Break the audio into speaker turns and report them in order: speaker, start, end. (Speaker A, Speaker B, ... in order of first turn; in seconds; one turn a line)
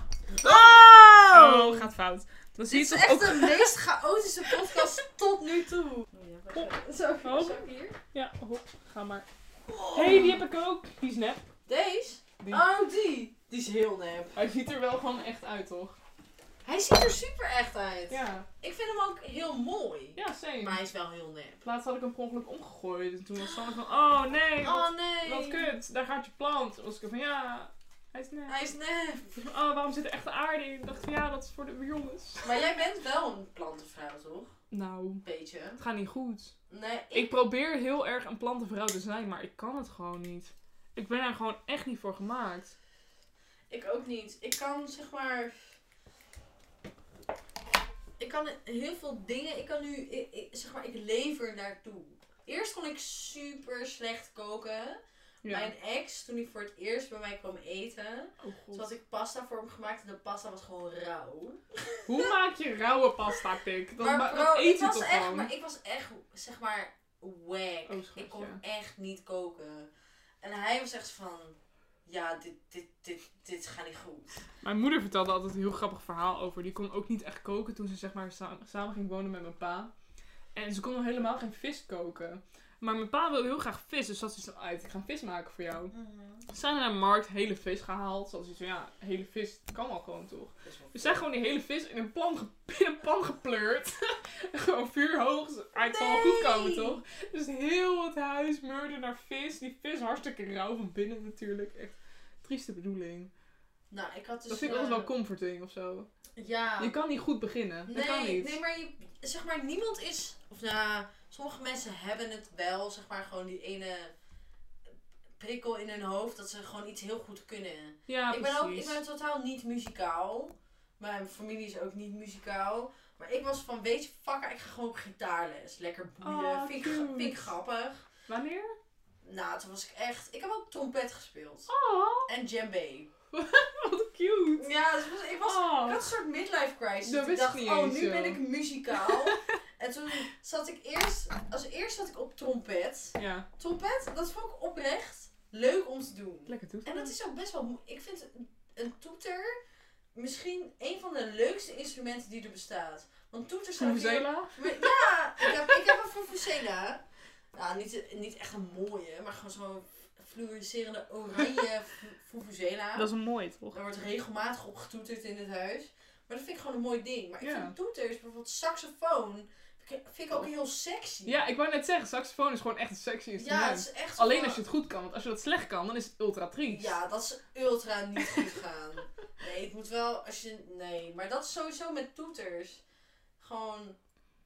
Speaker A: 0.3-1.9
Speaker B: 0.4-3.7
Speaker A: 2.7-8.0
Speaker B: 4.5-4.9
Speaker B: 6.5-9.3
Speaker A: 9.7-10.4
Speaker B: 9.9-11.5
Speaker A: 11.7-14.4
Speaker B: 12.4-12.7
Speaker B: 14.3-16.0
Speaker A: 16.6-21.6
Speaker B: 18.1-18.5
Speaker B: 20.2-20.8
Speaker B: 21.6-28.6
Speaker A: 24.6-25.7
Speaker A: 28.5-29.4
Speaker B: 29.4-32.5
Speaker A: 32.4-34.6
Speaker B: 34.7-35.2
Speaker A: 35.2-35.8
Speaker B: 35.8-36.5
Speaker A: 36.7-37.3
Speaker B: 37.1-42.8
Speaker A: 43.7-45.8
Speaker A: 48.2-62.3
Speaker B: 55.4-55.7
Speaker B: 58.4-58.9
Speaker B: 62.1-65.5
Speaker A: 64.0-69.9
Speaker B: 67.9-68.6
Speaker A: 70.4-74.4
Speaker B: 74.6-79.9
Speaker B: 80.5-85.9
Speaker A: 85.9-86.5
Speaker B: 86.5-103.3
Speaker A: 90.6-91.3
Speaker A: 95.8-97.0
Speaker A: 103.9-105.1
Speaker B: 104.5-106.1
Speaker A: 106.4-107.0
Speaker B: 106.8-108.6
Speaker A: 107.9-114.1
Speaker A: 115.4-128.1
Speaker B: 118.1-119.0
Speaker B: 126.2-127.5
Speaker B: 128.3-128.8
Speaker A: 129.2-131.7
Speaker B: 131.7-132.3
Speaker A: 132.3-133.1
Speaker B: 133.3-134.7
Speaker A: 134.6-149.6
Speaker B: 135.4-136.1
Speaker B: 137.0-138.4
Speaker B: 138.9-139.6
Speaker B: 143.2-143.5
Speaker B: 146.5-147.1
Speaker A: 150.2-157.0
Speaker B: 153.8-155.8
Speaker A: 157.6-163.1
Speaker B: 163.0-163.8
Speaker A: 163.7-171.5
Speaker B: 167.4-167.8
Speaker B: 171.3-177.0
Speaker A: 173.4-174.6
Speaker A: 176.7-182.8
Speaker A: 183.4-184.0